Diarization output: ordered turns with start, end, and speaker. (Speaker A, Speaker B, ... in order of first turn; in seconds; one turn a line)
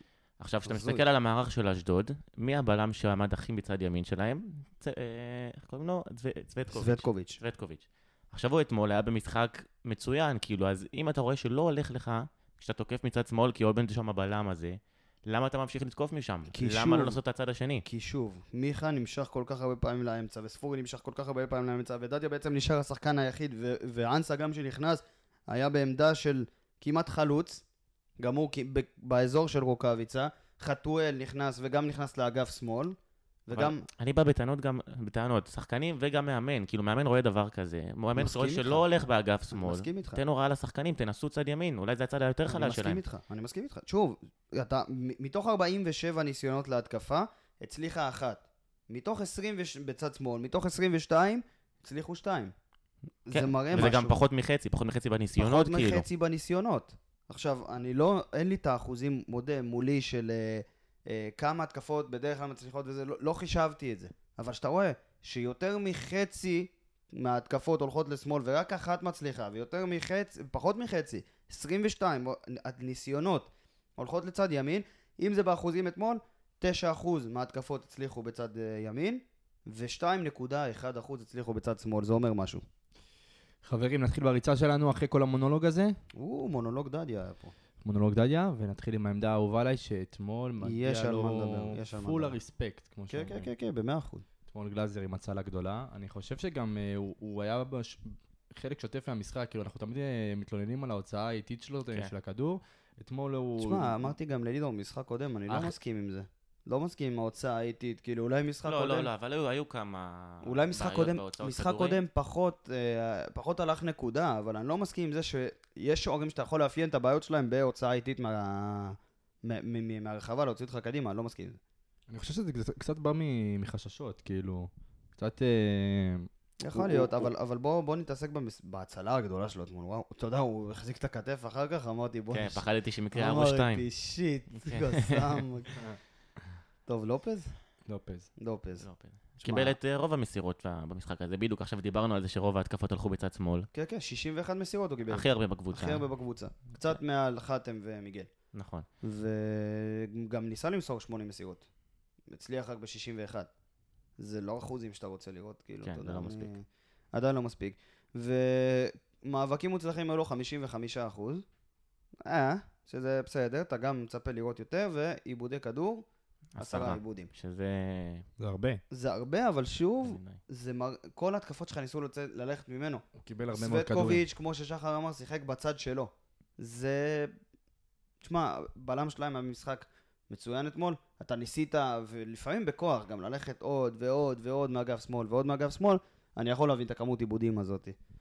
Speaker A: 0.4-17.8
Speaker B: 0.6-1.0
Speaker B: 6.7-7.4
Speaker B: 16.5-17.2
Speaker B: 17.8-27.6
Speaker B: 28.2-33.0
Speaker B: 33.5-33.8
Speaker A: 33.5-43.0
Speaker B: 38.1-38.9
Speaker B: 39.5-40.2
Speaker B: 42.5-52.5
Speaker B: 53.2-54.2
Speaker A: 53.3-56.0
Speaker B: 55.4-82.6
Speaker C: 83.6-86.0
Speaker B: 86.1-87.5
Speaker C: 87.8-93.5
Speaker B: 90.6-92.4
Speaker B: 93.1-94.2
Speaker C: 94.5-104.1
Speaker B: 103.6-109.1
Speaker C: 105.5-105.7
Speaker A: 108.7-112.0
Speaker B: 110.4-121.6
Speaker C: 122.1-127.3
Speaker B: 126.6-135.7
Speaker A: 132.3-133.8
Speaker A: 134.6-135.4
Speaker B: 136.9-137.5
Speaker C: 137.8-138.3
Speaker B: 138.4-138.8
Speaker A: 138.8-143.7
Speaker B: 139.4-139.8
Speaker B: 143.7-148.3
Speaker A: 145.1-146.0
Speaker A: 148.5-148.8
Speaker B: 149.0-151.7
Speaker B: 152.3-153.5
Speaker B: 154.2-161.4
Speaker A: 155.8-156.5
Speaker B: 162.2-166.1
Speaker A: 166.5-168.2
Speaker B: 166.6-167.3
Speaker C: 168.4-168.8
Speaker B: 168.9-177.3
Speaker A: 170.0-170.4
Speaker C: 173.1-174.2
Speaker B: 178.2-187.9